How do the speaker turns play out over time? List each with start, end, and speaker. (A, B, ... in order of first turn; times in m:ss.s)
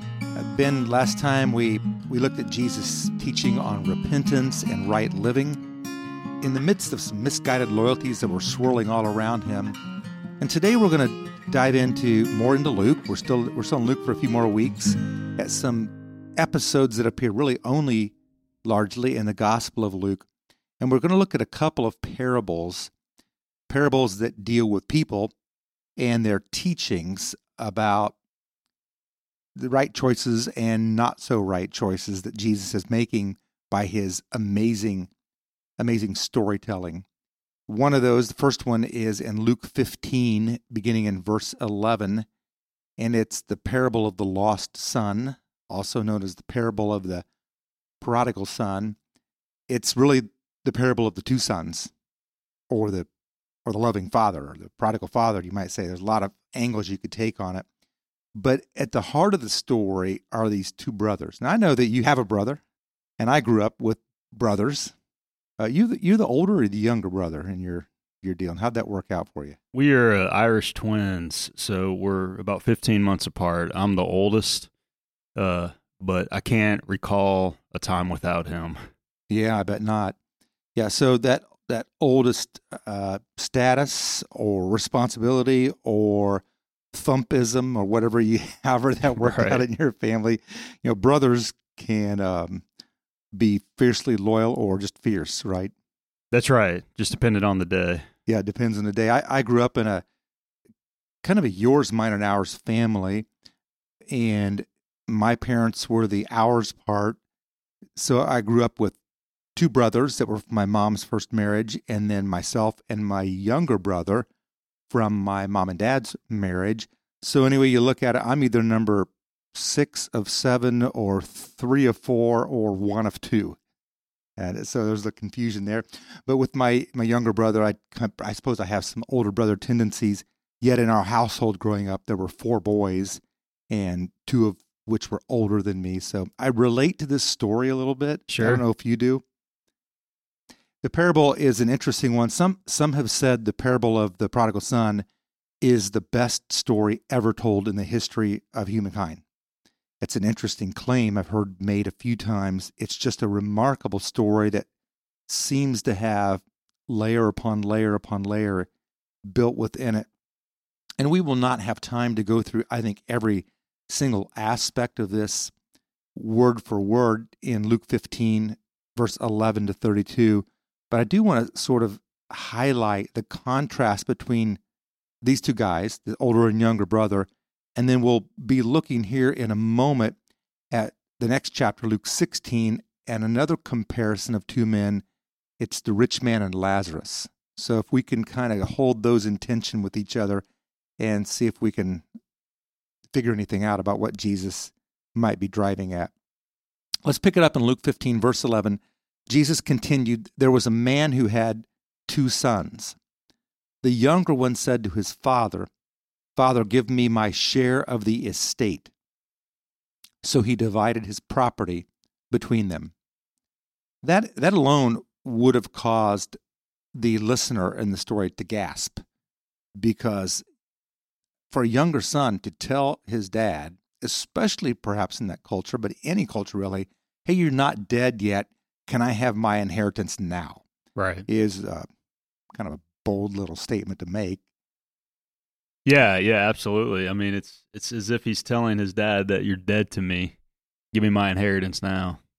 0:00.4-0:05.6 A
0:06.4-0:09.8 A
0:10.4-0:20.3 A
0:20.8-0:22.9 A
0:23.7-0:25.3 A
0:26.0-0:28.2 A
0:29.6-0:35.1 A
0:35.8-0:37.0 A
0:37.7-0:42.3 A
0:43.0-0:47.2 A
0:48.0-0:49.0 A
0:49.7-0:51.9 A
0:52.7-0:53.1 A
0:53.6-0:57.7 A
0:58.4-1:02.6 A
1:03.2-1:04.9 A
1:05.6-1:09.6 A
1:09.7-1:14.7 B
1:15.4-1:18.8 B
1:19.3-1:20.2 A
1:20.8-1:32.6 A
1:29.1-1:29.6 B
1:33.3-1:35.7 A
1:36.3-1:38.0 B
1:38.3-1:40.0 A
1:41.2-1:43.3 A
1:44.1-1:47.2 A
1:48.0-1:49.0 A
1:49.6-1:54.3 A
1:54.9-2:03.6 A
2:04.4-2:19.2 A
2:18.3-2:18.6 B
2:20.8-2:25.1 A
2:25.6-2:29.2 A
2:30.0-2:34.7 A
2:35.3-2:38.7 A
2:39.3-2:40.1 A
2:41.0-2:45.5 A
2:46.2-2:54.6 A
2:55.2-3:00.2 A
3:00.7-3:05.0 A
3:05.6-3:10.4 A
3:11.0-3:12.0 A
3:13.1-3:16.1 A
3:17.0-3:23.0 A
3:23.8-3:25.7 A
3:26.4-3:28.9 A
3:30.2-3:32.9 A
3:34.0-3:36.4 A
3:37.0-3:39.0 A
3:39.8-3:40.4 A
3:41.5-3:50.6 A
3:51.0-3:51.3 B
3:51.3-3:51.9 A
3:52.5-3:54.4 A
3:55.9-4:00.4 B
4:00.9-4:02.2 B